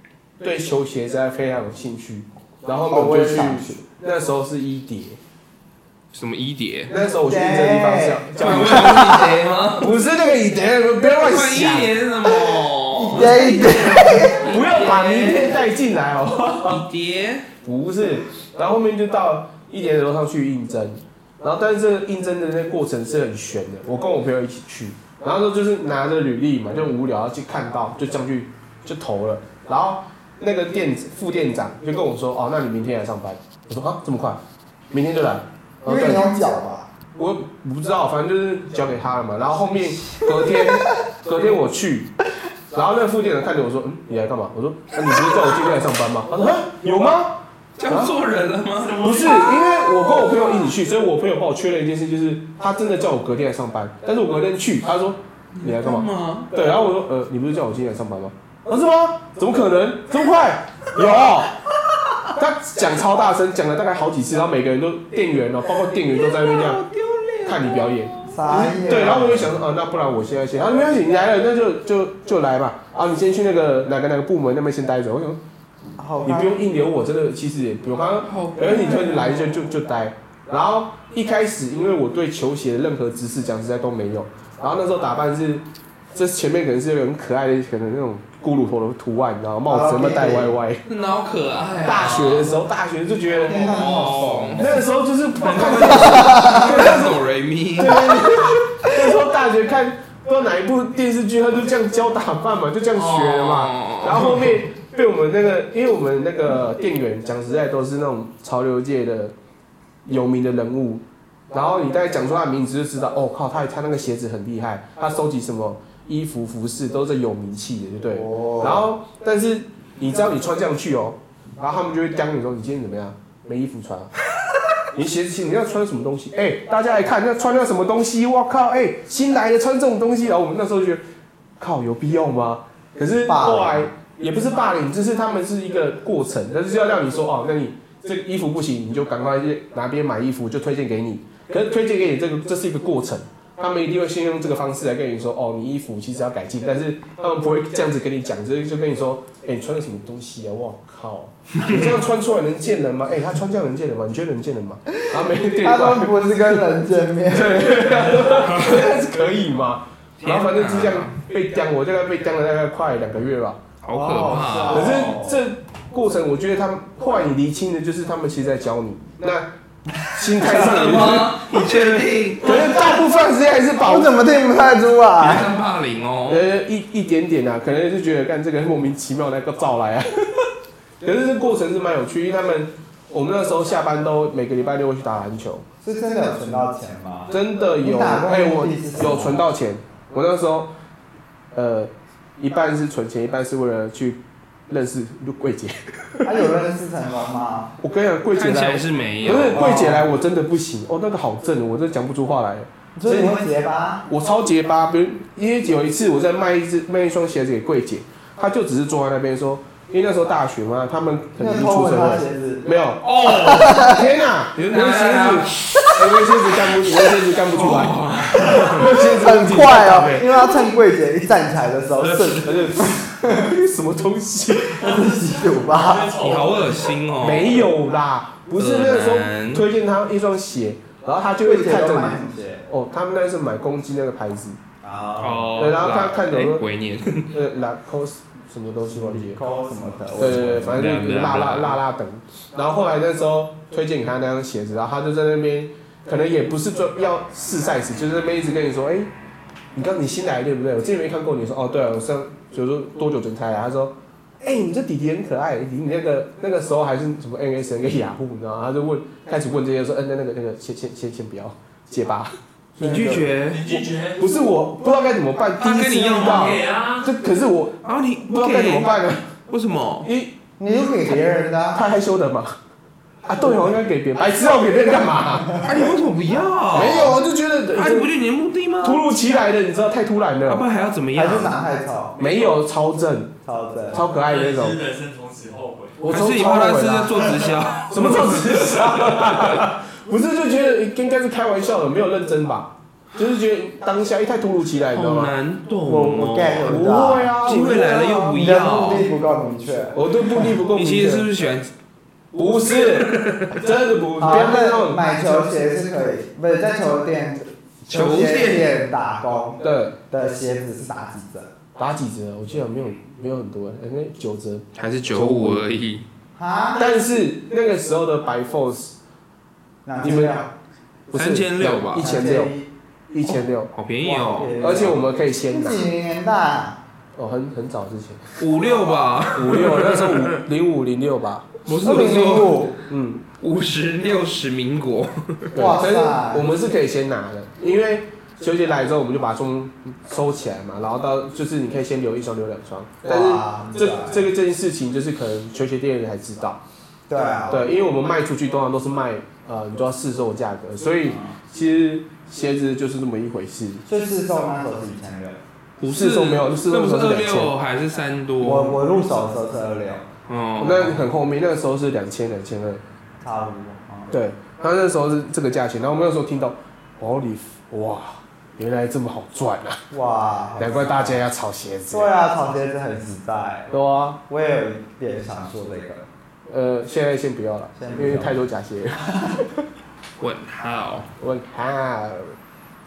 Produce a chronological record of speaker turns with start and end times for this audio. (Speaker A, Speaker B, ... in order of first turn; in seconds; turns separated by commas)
Speaker A: 0.4-5.2, Speaker B: 2.9-3.8, Speaker C: 6.1-6.9, Speaker A: 6.9-9.2, Speaker B: 7.2-9.4, Speaker C: 8.4-9.9, Speaker A: 9.8-12.0, Speaker C: 11.2-15.6, Speaker B: 12.9-14.5, Speaker A: 14.4-16.8, Speaker C: 16.6-17.5, Speaker A: 17.6-34.4, Speaker A: 34.9-36.2, Speaker B: 35.9-36.9, Speaker A: 37.1-42.1, Speaker A: 42.7-48.1, Speaker C: 47.8-50.4, Speaker D: 48.8-49.5, Speaker A: 49.0-61.6, Speaker C: 55.6-56.5, Speaker A: 62.2-66.8, Speaker C: 66.4-68.4, Speaker A: 67.5-75.4, Speaker B: 68.3-69.6, Speaker B: 76.0-76.6, Speaker A: 76.2-90.8, Speaker C: 78.2-79.6, Speaker B: 89.7-90.6, Speaker C: 90.9-92.5, Speaker A: 91.8-109.3, Speaker B: 93.5-94.8, Speaker C: 93.5-94.8, Speaker C: 95.4-98.3, Speaker B: 95.9-97.0, Speaker C: 102.9-104.6, Speaker A: 110.0-124.1, Speaker B: 118.0-118.9, Speaker A: 124.9-131.0, Speaker A: 131.6-156.7, Speaker B: 133.2-133.9, Speaker C: 151.6-152.0, Speaker B: 155.1-158.3, Speaker A: 157.3-163.6, Speaker C: 158.3-158.9, Speaker C: 160.2-161.2, Speaker C: 163.8-165.2, Speaker B: 163.9-165.4, Speaker A: 164.6-174.1, Speaker C: 170.3-172.9, Speaker B: 173.8-175.5, Speaker C: 175.2-176.5, Speaker A: 176.3-180.5, Speaker A: 181.0-185.7, Speaker B: 185.8-189.4, Speaker A: 187.3-190.7, Speaker A: 191.5-196.3, Speaker B: 196.2-197.7, Speaker A: 197.8-203.4, Speaker C: 198.3-199.9, Speaker B: 199.5-200.1, Speaker B: 203.0-204.1, Speaker A: 204.1-220.5, Speaker B: 211.4-212.7, Speaker C: 213.0-213.9, Speaker B: 213.3-214.2, Speaker C: 214.6-216.2, Speaker C: 217.4-218.9, Speaker B: 219.1-223.5, Speaker C: 222.0-222.4, Speaker A: 222.4-224.9, Speaker B: 224.7-226.2, Speaker D: 224.9-227.0, Speaker C: 226.2-227.7, Speaker A: 227.2-234.6, Speaker C: 228.6-229.7, Speaker B: 231.4-232.7, Speaker B: 234.8-235.6, Speaker C: 235.2-237.4, Speaker A: 235.6-236.7, Speaker A: 237.3-239.4, Speaker B: 238.9-240.9, Speaker A: 240.2-249.1, Speaker C: 240.5-241.8, Speaker A: 249.7-262.3, Speaker C: 262.8-263.6, Speaker B: 262.8-263.3, Speaker D: 263.5-264.4, Speaker A: 263.6-269.3, Speaker C: 265.6-266.6, Speaker D: 266.1-267.1, Speaker C: 267.8-270.1, Speaker A: 270.0-270.4, Speaker B: 270.6-271.8, Speaker A: 271.7-272.6, Speaker A: 273.2-275.6, Speaker B: 275.2-275.9, Speaker C: 275.6-279.0, Speaker A: 276.7-278.1, Speaker A: 278.8-280.7, Speaker C: 280.5-281.6, Speaker B: 281.1-282.2, Speaker A: 282.2-283.3, Speaker B: 283.4-284.1, Speaker A: 283.9-284.8, Speaker D: 284.0-286.1, Speaker A: 286.0-295.3, Speaker C: 286.1-289.7, Speaker C: 294.9-299.1, Speaker B: 295.9-300.0, Speaker A: 296.7-297.8, Speaker A: 299.9-301.3, Speaker C: 300.6-301.7, Speaker A: 302.3-305.0, Speaker C: 302.5-303.6, Speaker B: 304.2-311.5, Speaker C: 307.9-308.8, Speaker A: 309.6-310.0, Speaker A: 311.8-315.7, Speaker C: 314.8-316.1, Speaker B: 316.4-317.0, Speaker A: 316.8-318.9, Speaker B: 319.9-320.5, Speaker A: 320.0-320.4, Speaker A: 321.1-322.6, Speaker C: 321.1-322.2, Speaker B: 321.9-322.7, Speaker A: 323.1-323.7, Speaker C: 323.3-324.6, Speaker B: 324.0-326.8, Speaker A: 324.6-325.8, Speaker A: 327.2-328.5, Speaker C: 328.4-330.3, Speaker A: 329.3-331.6, Speaker C: 331.6-332.7, Speaker B: 331.7-332.8, Speaker A: 332.9-333.2, Speaker C: 333.4-335.6, Speaker A: 335.5-346.6, Speaker B: 335.6-336.5, Speaker B: 343.1-344.3, Speaker B: 347.1-347.7, Speaker A: 347.5-353.9, Speaker B: 351.1-351.3, Speaker B: 353.9-355.4, Speaker C: 355.8-358.8, Speaker A: 355.8-357.5, Speaker B: 358.4-360.1, Speaker C: 360.3-361.1, Speaker A: 360.6-362.8, Speaker B: 363.2-364.1, Speaker A: 364.1-369.8, Speaker B: 369.9-371.2, Speaker A: 370.6-372.1, Speaker B: 371.9-373.7, Speaker A: 373.7-374.2, Speaker B: 374.3-376.1, Speaker A: 376.5-379.6, Speaker B: 377.8-378.4, Speaker B: 379.0-379.4, Speaker C: 380.2-381.1, Speaker A: 381.2-382.4